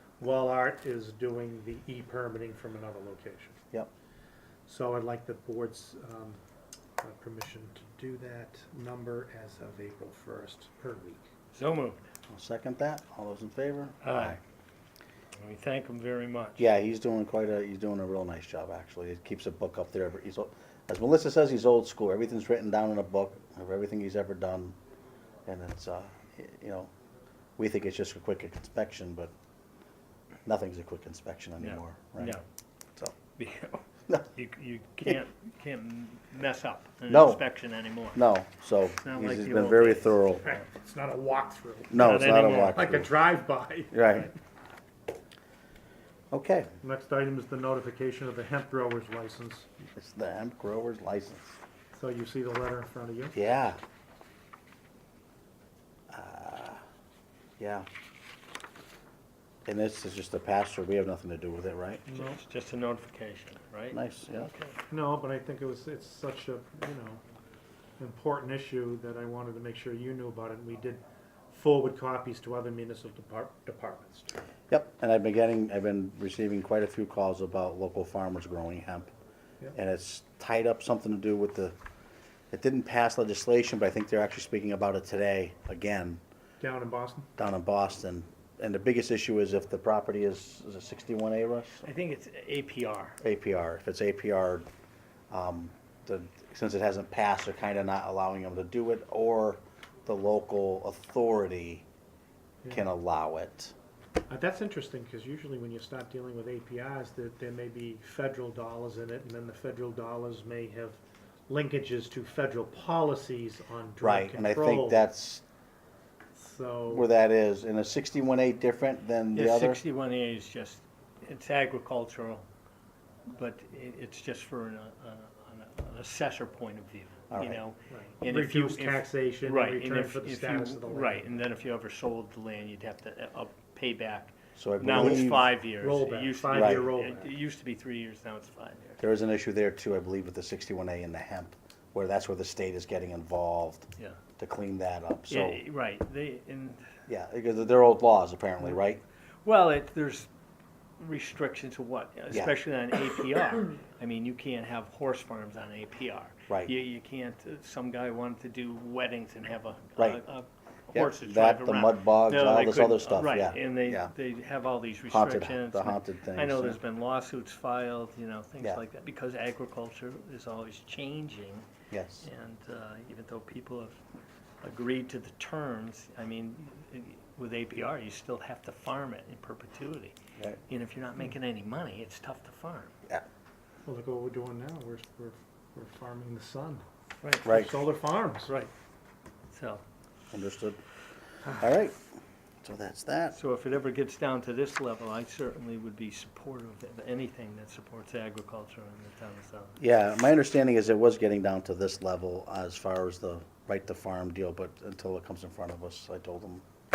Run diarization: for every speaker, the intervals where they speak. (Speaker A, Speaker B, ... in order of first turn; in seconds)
Speaker A: 0.2-3.6, 4.7-6.4, 7.0-11.3, 40.4-44.3, 46.8-49.7, 51.9-53.4, 62.1-62.4, 64.9-67.2, 68.0-74.4, 86.6-87.3, 104.3-115.0, 116.3-117.1, 127.9-131.3, 134.9-137.3, 183.8-186.8, 187.4-188.5
Speaker B: 11.5-12.0, 14.0-14.4, 15.4-16.6, 31.6-32.4, 33.4-38.2, 39.0-40.1, 41.9-42.8, 62.1-64.8, 91.8-93.2, 119.3-122.4, 123.3-139.0, 145.3-147.0, 149.4-150.3, 151.0-171.7, 172.2-174.0, 174.6-180.1, 180.7-182.9, 187.2-187.5, 189.5-189.8, 193.3-199.8
Speaker C: 12.3-14.4, 16.6-24.8, 25.4-26.9, 27.6-29.3, 30.4-32.4, 37.1-37.4, 38.1-40.6, 41.9-43.1, 43.9-44.3, 46.3-46.7, 49.9-51.6, 53.3-53.8, 56.1-56.8, 57.6-57.9, 59.6-62.0, 63.9-64.5, 74.7-79.1, 79.7-81.7, 82.5-86.2, 87.4-91.8, 93.2-94.7, 95.3-101.8, 102.7-103.7, 114.0-115.4, 116.9-119.8, 127.3-127.6, 134.6-135.4, 136.5-136.9, 139.0-145.6, 147.1-149.0, 160.9-164.1, 165.1-166.8, 171.9-172.3, 187.4-187.7, 190.3-190.8, 191.5-192.0, 192.6-193.4, 199.8-206.6